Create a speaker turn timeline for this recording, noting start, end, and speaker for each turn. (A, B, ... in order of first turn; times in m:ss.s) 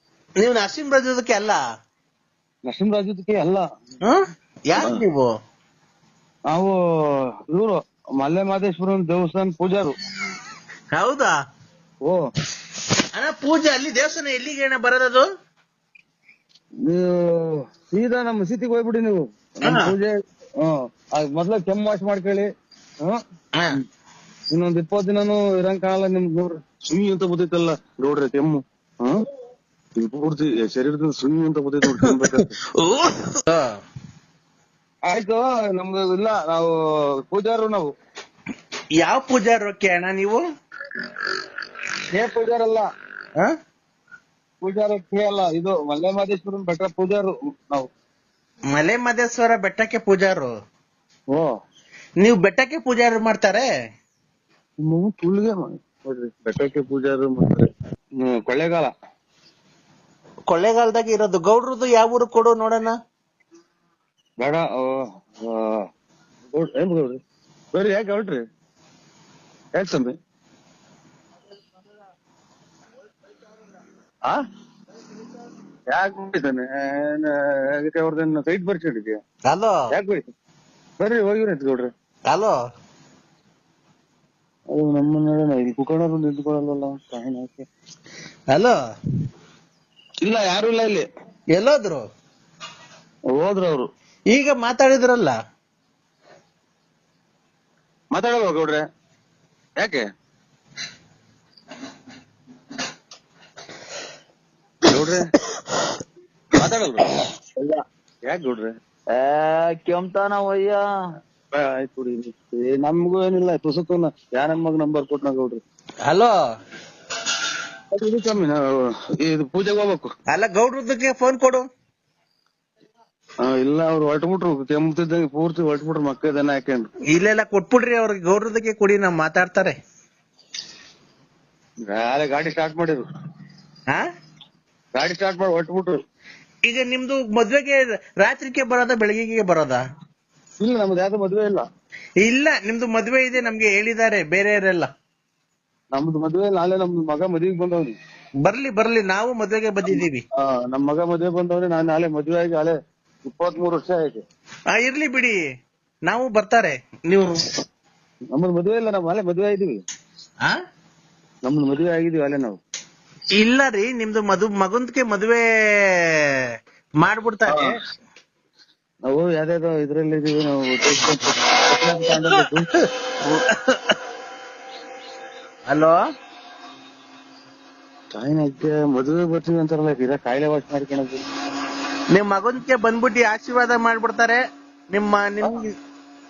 0:00.4-0:01.6 A
0:02.6-0:03.6 B
0:04.0-0:05.3 A
0:06.5-0:06.8 B
0:07.5-0:10.0 B
0:10.9-0:11.3 A
0:13.2-0:15.2 A
0:16.8-0:22.5 B
0:19.6-0:19.9 A
0:24.5-0:29.2 B
0:30.0-0:32.5 B
0:32.8-0:33.7 A
0:35.0-0:36.7 B
0:37.3-0:37.9 B
0:39.0-0:40.4 A
0:42.1-0:42.9 B
0:44.6-0:47.9 B
0:48.7-0:50.5 A
0:52.2-0:53.6 A
0:54.8-0:57.7 B
0:58.2-0:58.9 B
1:00.5-1:03.0 A
1:04.4-1:05.8 B
1:06.5-1:07.2 B
1:07.7-1:08.4 B
1:09.7-1:10.1 B
1:15.9-1:19.2 B
1:19.5-1:19.8 A
1:19.9-1:20.2 B
1:21.0-1:21.9 B
1:22.3-1:22.6 A
1:24.7-1:27.6 B
1:30.2-1:31.1 B
1:31.6-1:32.0 A
1:33.3-1:33.9 B
1:34.3-1:35.3 A
1:38.1-1:38.8 B
1:39.8-1:40.0 B
1:44.8-1:45.3 B
1:46.5-1:47.1 B
1:47.6-1:47.8 C
1:48.3-1:48.7 B
1:49.1-1:50.8 C
1:51.6-1:55.6 B
1:56.0-1:56.3 A
1:57.9-1:58.6 B
1:59.2-2:00.1 B
2:00.3-2:01.6 A
2:03.4-2:06.9 B
2:07.1-2:09.7 A
2:11.9-2:13.0 B
2:14.9-2:16.0 B
2:16.6-2:19.8 A
2:20.6-2:21.6 B
2:22.2-2:24.9 A
2:25.9-2:28.0 B
2:28.4-2:30.2 A
2:29.9-2:34.2 B
2:34.7-2:35.4 A
2:36.1-2:37.4 A
2:38.3-2:39.8 B
2:41.4-2:42.6 B
2:43.4-2:45.4 A
2:47.0-2:47.7 A
2:49.1-2:52.7 B
2:53.2-2:53.9 A
2:55.7-2:56.0 A
2:58.1-3:01.2 B
3:02.1-3:04.4 A
3:04.9-3:05.7 A